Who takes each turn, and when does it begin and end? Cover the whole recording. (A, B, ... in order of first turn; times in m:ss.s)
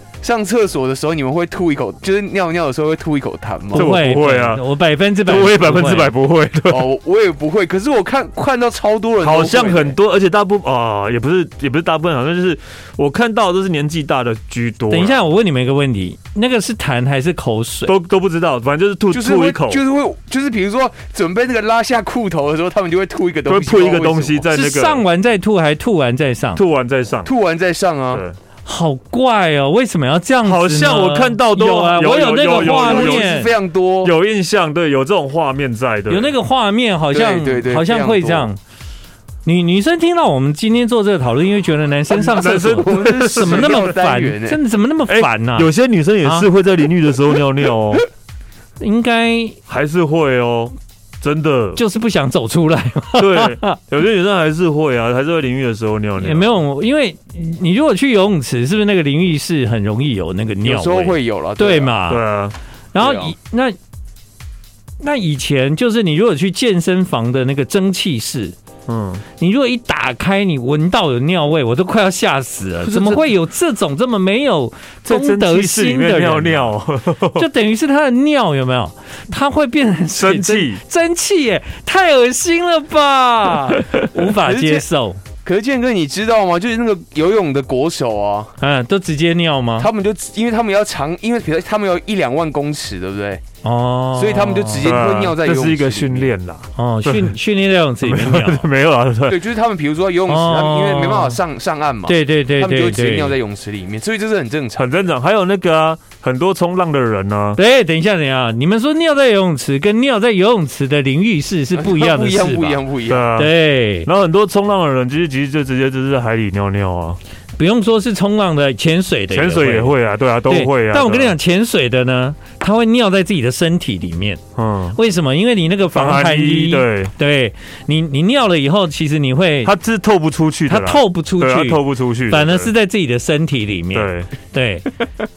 0:00.2-0:03.9 A
0:03.7-0:04.6 B
0:03.7-0:06.1 C
0:05.2-0:06.9 B
0:06.7-0:10.0 A
0:09.2-0:15.2 B
0:14.9-0:17.9 C
0:17.9-0:19.8 B
0:19.1-0:24.4 A
0:23.5-0:25.0 B
0:24.5-0:26.6 C
0:26.5-0:27.3 B
0:27.2-0:28.2 A
0:28.1-0:28.4 B
0:28.6-0:33.5 C
0:30.4-0:33.4 B
0:32.5-0:34.1 A
0:34.0-0:36.3 B
0:36.1-0:38.6 C
0:37.1-0:38.5 A
0:39.4-0:45.7 C
0:42.2-0:43.8 B
0:42.2-0:44.6 A
0:45.1-0:48.0 B
0:48.8-0:49.6 C
0:49.7-0:51.8 B
0:51.8-0:53.8 C
0:53.2-0:56.5 B
0:56.2-1:02.2 C
1:00.6-1:02.0 A
1:02.1-1:02.6 B
1:02.9-1:03.8 C
1:03.0-1:03.3 A
1:05.0-1:08.6 C
1:08.9-1:09.2 B
1:09.4-1:16.8 C
1:12.8-1:13.3 B
1:15.0-1:17.5 B
1:17.4-1:25.2 C
1:20.1-1:20.8 B
1:24.4-1:24.8 A
1:25.4-1:28.5 A
1:28.6-1:29.9 C
1:29.8-1:33.4 A
1:33.6-1:34.9 C
1:34.2-1:36.3 A
1:34.8-1:37.4 B
1:36.8-1:38.7 C
1:38.0-1:39.4 B
1:39.3-1:45.0 A
1:40.3-1:41.4 C
1:42.1-1:43.4 C
1:44.8-1:47.6 B
1:47.6-1:52.8 C
1:51.8-1:53.3 A
1:53.1-1:53.5 B
1:53.4-1:54.1 C
1:54.0-1:57.2 B
1:57.6-2:04.4 C
1:59.3-2:01.4 B
2:04.6-2:05.0 B
2:05.0-2:09.7 C
2:05.9-2:07.1 B
2:09.6-2:12.7 B
2:10.7-2:14.9 C
2:13.9-2:14.3 B